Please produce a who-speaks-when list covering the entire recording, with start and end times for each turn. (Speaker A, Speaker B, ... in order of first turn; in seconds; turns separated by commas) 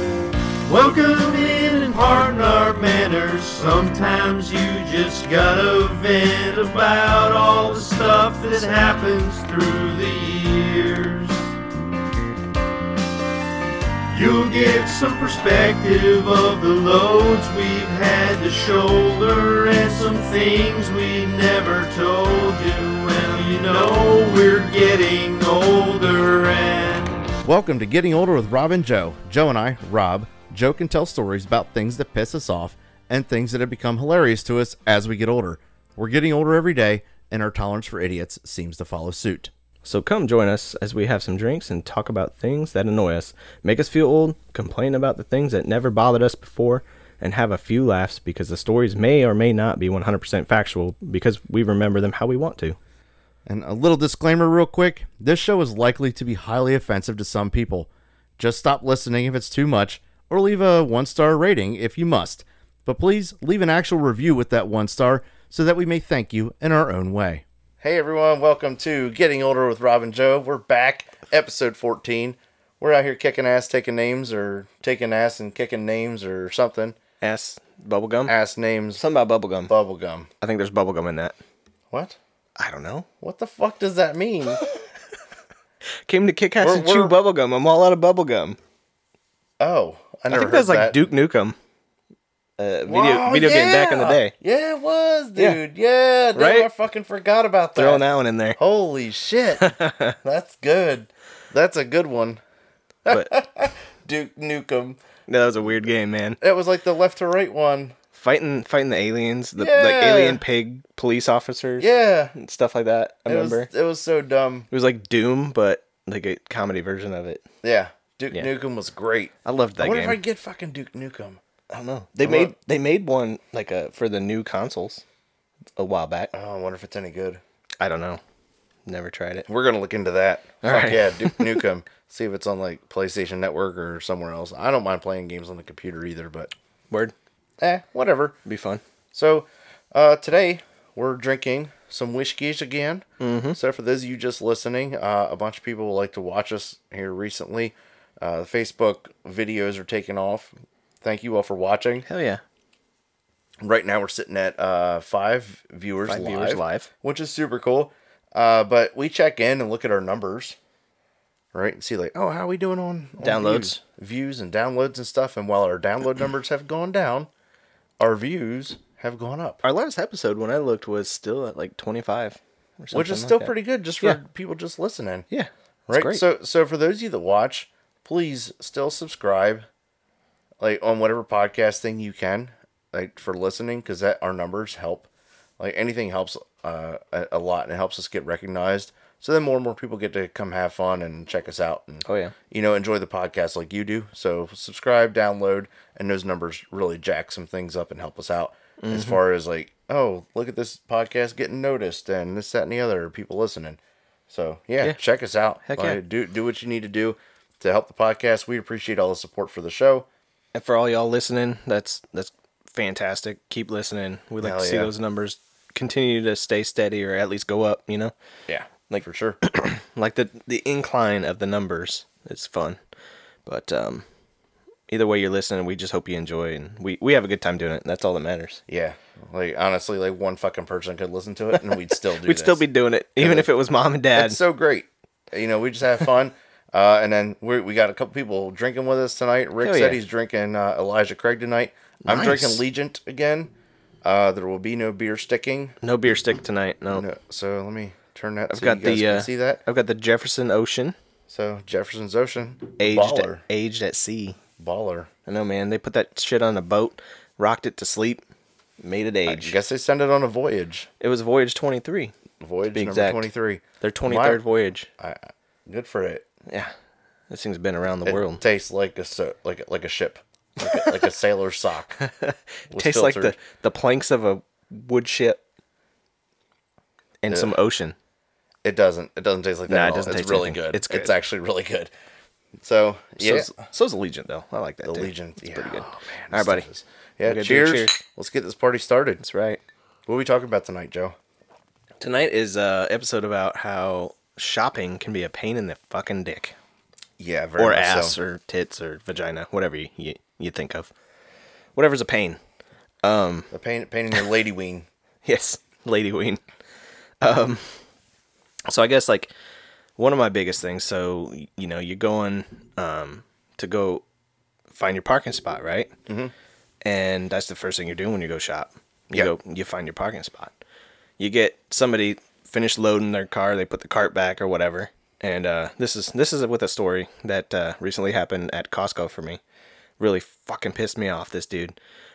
Speaker A: 0.7-11.5, Speaker A: 14.1-27.3, Speaker B: 27.4-39.5, Speaker C: 39.8-52.8, Speaker B: 53.5-77.0, Speaker C: 77.2-78.3, Speaker B: 78.2-79.0, Speaker C: 79.0-79.7, Speaker B: 79.7-80.3, Speaker C: 80.4-81.3, Speaker B: 81.9-82.2, Speaker C: 82.6-83.1, Speaker B: 83.2-84.6, Speaker C: 86.0-88.6, Speaker B: 86.6-87.1, Speaker B: 89.6-91.0, Speaker C: 90.3-91.6, Speaker C: 92.6-94.3, Speaker B: 92.9-98.0, Speaker C: 95.3-95.6, Speaker C: 96.3-96.7, Speaker C: 97.8-98.6, Speaker B: 98.6-99.7, Speaker C: 99.6-100.2, Speaker B: 100.2-102.4, Speaker B: 103.0-105.0, Speaker C: 103.1-103.3, Speaker C: 105.3-106.4, Speaker B: 106.4-107.9, Speaker C: 108.1-113.7, Speaker B: 109.6-110.4, Speaker B: 111.8-112.3, Speaker B: 113.3-114.7, Speaker C: 114.7-117.4, Speaker B: 117.6-121.4, Speaker C: 119.4-120.2, Speaker C: 121.7-125.0, Speaker B: 122.2-122.5, Speaker C: 125.8-126.3, Speaker B: 126.3-127.4, Speaker C: 127.8-128.2, Speaker C: 128.9-129.5, Speaker B: 129.5-136.5, Speaker C: 130.6-131.6, Speaker B: 137.6-138.4, Speaker C: 138.4-138.8, Speaker B: 139.1-152.1, Speaker C: 143.2-143.6, Speaker C: 152.1-152.4, Speaker B: 153.6-160.6, Speaker C: 156.1-156.9, Speaker B: 161.5-167.3, Speaker C: 163.2-163.8, Speaker B: 168.0-169.6, Speaker C: 169.6-174.2, Speaker B: 172.9-175.2, Speaker C: 175.3-176.2, Speaker B: 175.9-179.7, Speaker B: 180.6-185.1, Speaker B: 185.6-203.8, Speaker C: 192.0-192.3, Speaker C: 198.8-199.2, Speaker B: 204.3-210.1, Speaker C: 205.6-206.0, Speaker C: 210.5-218.1, Speaker B: 214.4-214.9, Speaker B: 218.5-219.4, Speaker C: 218.9-222.8, Speaker C: 223.4-224.0, Speaker C: 224.9-228.6, Speaker B: 228.7-232.6, Speaker C: 231.5-234.4, Speaker B: 233.2-233.5, Speaker B: 234.1-243.5, Speaker C: 239.6-240.0, Speaker C: 242.0-242.6, Speaker B: 244.0-245.8, Speaker C: 245.8-247.0, Speaker B: 246.9-249.6, Speaker C: 248.5-250.9, Speaker B: 251.3-253.4, Speaker C: 252.8-254.4, Speaker B: 254.6-255.1, Speaker C: 255.2-258.2, Speaker C: 258.8-259.6, Speaker B: 259.3-260.9, Speaker C: 261.0-262.1, Speaker B: 262.4-264.4, Speaker C: 262.7-263.3, Speaker C: 263.8-264.9, Speaker B: 265.0-266.2, Speaker C: 266.5-266.7, Speaker C: 267.3-268.4, Speaker B: 268.0-272.0, Speaker C: 272.0-275.4, Speaker B: 272.7-273.4, Speaker C: 277.2-277.9, Speaker B: 277.3-277.6, Speaker B: 278.6-281.9, Speaker C: 279.7-281.1, Speaker B: 282.6-283.5, Speaker C: 283.2-286.7, Speaker B: 284.8-289.2, Speaker C: 287.2-288.0, Speaker C: 289.2-289.6, Speaker B: 290.1-291.1, Speaker C: 292.0-296.5, Speaker B: 297.2-298.2, Speaker C: 297.6-300.9, Speaker C: 301.8-302.4, Speaker C: 303.0-303.5, Speaker B: 303.5-304.9, Speaker C: 305.2-306.4, Speaker C: 307.2-307.8, Speaker C: 308.7-309.3, Speaker C: 310.0-314.0, Speaker C: 314.7-315.9, Speaker B: 316.1-316.3, Speaker C: 316.8-320.5, Speaker C: 321.2-329.4, Speaker C: 330.0-331.8